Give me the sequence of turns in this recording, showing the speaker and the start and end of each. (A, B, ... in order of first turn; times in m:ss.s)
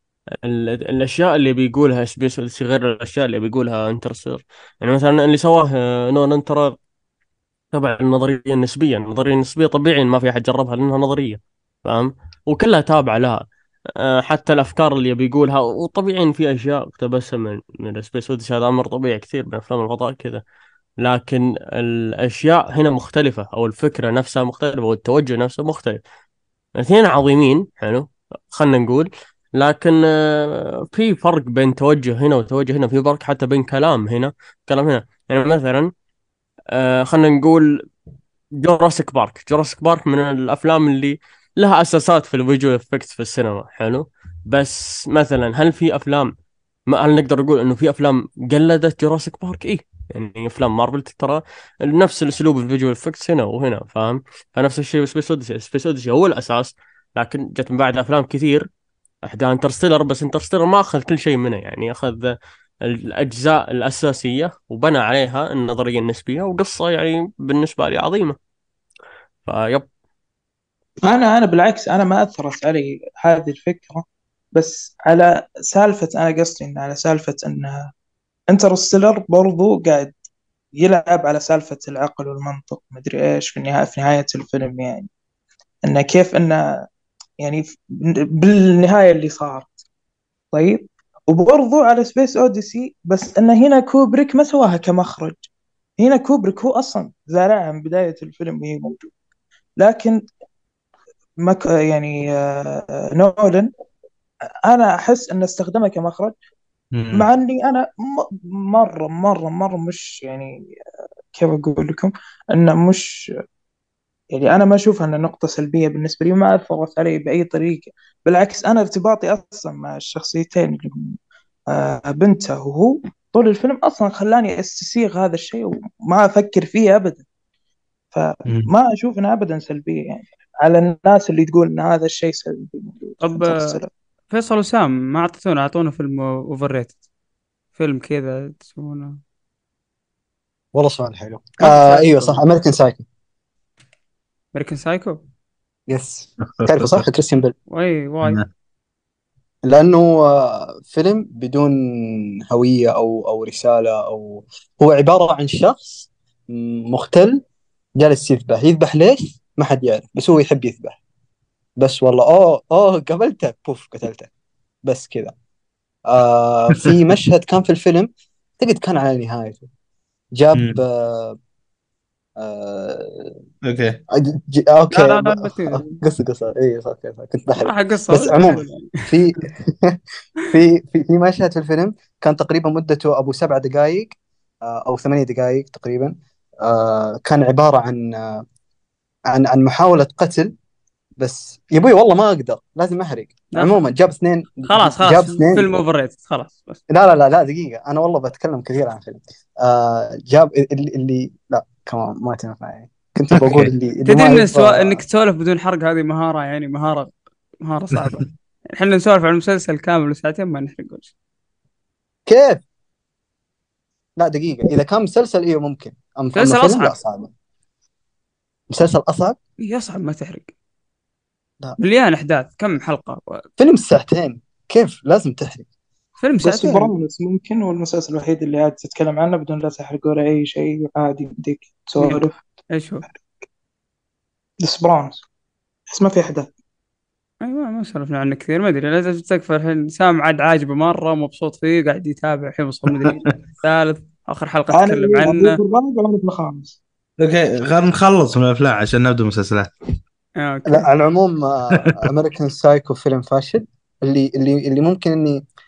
0:00.4-0:06.8 A
0:07.7-0:13.4 A
0:14.0-0:20.4 A
0:21.0-0:26.0 A
0:26.8-0:35.9 A
0:36.7-0:37.8 A
0:38.5-0:46.3 A
0:46.9-0:58.6 A
0:59.2-1:08.4 A
1:09.4-1:09.9 A
1:11.0-1:14.0 B
1:14.5-1:17.9 B
1:18.5-1:20.1 B
1:20.8-1:25.1 B
1:25.8-1:26.8 B
1:27.4-1:29.8 B
1:30.5-1:35.4 B
1:36.0-1:39.1 B
1:39.8-1:40.2 B
1:41.4-1:43.7 B
1:44.6-1:46.3 B
1:46.9-1:47.3 C
1:47.1-1:50.6 B
1:51.3-1:53.2 B
1:54.3-2:01.1 B
2:01.7-2:07.2 B
2:08.1-2:13.9 B
2:13.2-2:13.8 D
2:14.3-2:17.0 D
2:17.8-2:19.2 D
2:20.7-2:23.0 E
2:21.6-2:22.4 D
2:24.5-2:25.2 D
2:25.9-2:27.5 E
2:26.6-2:27.0 C
2:27.7-2:28.4 D
2:29.6-2:37.4 E
2:38.0-2:41.0 E
2:41.8-2:44.3 E
2:44.8-2:45.3 E
2:46.0-2:49.7 E
2:50.3-2:51.4 E
2:50.5-2:50.8 C
2:52.4-2:53.4 E
2:53.6-2:54.0 C
2:54.1-3:00.0 E
2:54.9-2:56.0 D
2:57.6-2:59.2 D
3:00.5-3:08.4 E
3:09.3-3:10.5 E
3:11.2-3:15.7 E
3:14.6-3:16.8 D
3:16.9-3:25.0 E
3:23.3-3:23.7 C
3:24.0-3:31.1 D
3:32.3-3:32.6 E
3:34.2-3:37.3 E
3:36.3-3:37.0 D
3:38.7-3:39.4 E
3:39.6-3:40.5 D
3:41.8-3:43.4 D
3:43.6-3:45.6 E
3:46.2-3:46.9 D
3:46.4-3:52.4 B
3:52.0-3:53.0 D
3:54.6-3:55.2 B
3:55.9-3:56.5 B
3:57.4-4:05.6 D
4:04.7-4:06.8 B
4:07.2-4:09.7 C
4:10.4-4:10.9 D
4:10.6-4:15.4 E
4:11.7-4:12.0 C